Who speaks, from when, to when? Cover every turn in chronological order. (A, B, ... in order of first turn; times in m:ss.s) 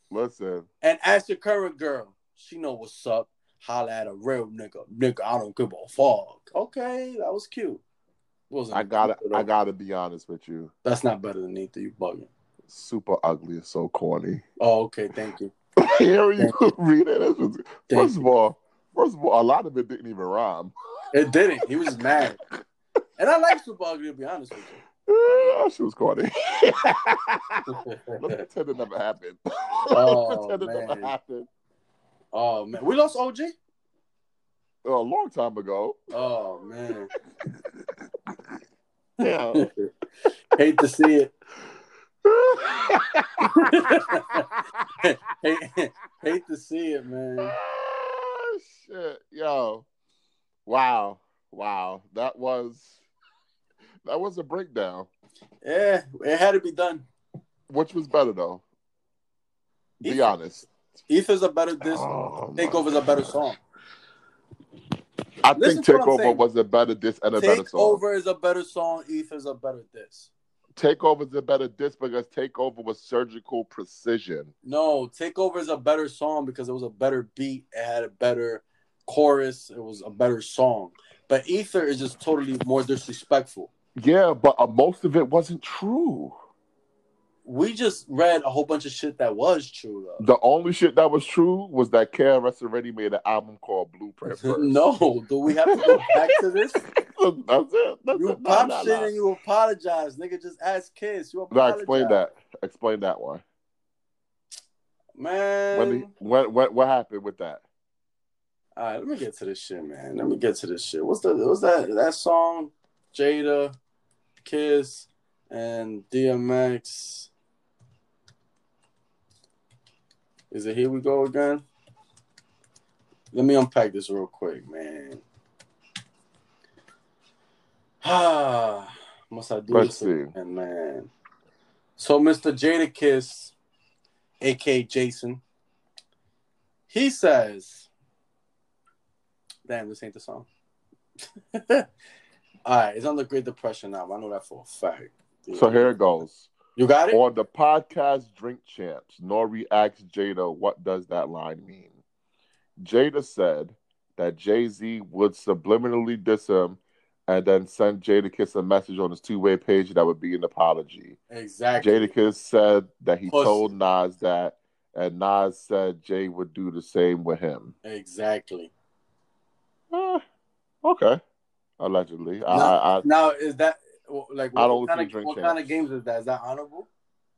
0:00.1-0:00.7 A
0:00.8-0:07.8 B
0:08.5-0:09.5 B
0:08.7-0:10.7 A
0:10.8-0:12.3 B
0:12.7-0:14.4 A
0:14.6-0:15.5 B
0:15.8-0:20.7 A
0:17.9-0:18.2 B
0:21.1-0:22.4 B
0:23.2-0:24.8 B
0:25.0-0:31.5 A
0:27.7-0:28.4 B
0:29.9-0:31.1 B
0:32.3-0:33.5 B
0:34.8-0:36.0 A
0:36.1-0:37.1 B
0:39.2-0:39.7 A
0:39.5-0:39.9 B
0:40.5-0:41.3 B
0:42.2-0:44.9 A
0:43.5-0:44.5 B
0:45.0-0:47.5 B
0:47.4-0:49.8 A
0:50.6-0:53.0 A
0:54.0-0:55.1 A
0:55.6-0:57.0 B
0:57.7-0:58.6 A
1:00.0-1:00.3 B
1:00.0-1:00.7 A
1:01.1-1:03.6 B
1:01.8-1:03.4 A
1:05.4-1:08.0 A
1:05.6-1:06.4 B
1:07.3-1:10.3 B
1:10.8-1:14.5 A
1:14.6-1:23.7 B
1:24.0-1:26.3 A
1:27.4-1:30.2 B
1:30.2-1:34.8 A
1:34.3-1:36.8 B
1:35.7-1:39.1 A
1:38.1-1:42.2 B
1:41.5-1:43.4 A
1:45.2-1:46.1 B
1:45.7-1:47.6 A
1:48.8-1:53.7 B
1:54.4-1:57.3 B
2:00.5-2:01.6 B
2:03.3-2:05.2 B
2:08.0-2:11.1 B
2:09.7-2:10.3 A
2:12.0-2:13.5 B
2:14.4-2:15.4 B
2:16.9-2:17.9 B
2:19.7-2:20.5 B
2:21.5-2:21.9 B
2:22.6-2:26.0 B
2:25.5-2:26.5 A
2:26.7-2:27.2 B
2:27.1-2:31.9 A
2:32.8-2:41.2 A
2:41.3-2:42.1 B
2:41.8-2:47.7 A
2:43.3-2:43.7 B
2:47.8-2:48.7 B
2:49.9-2:50.2 A
2:50.8-2:51.2 A
2:51.8-2:53.0 A
2:52.5-2:56.9 B
2:54.5-2:55.7 A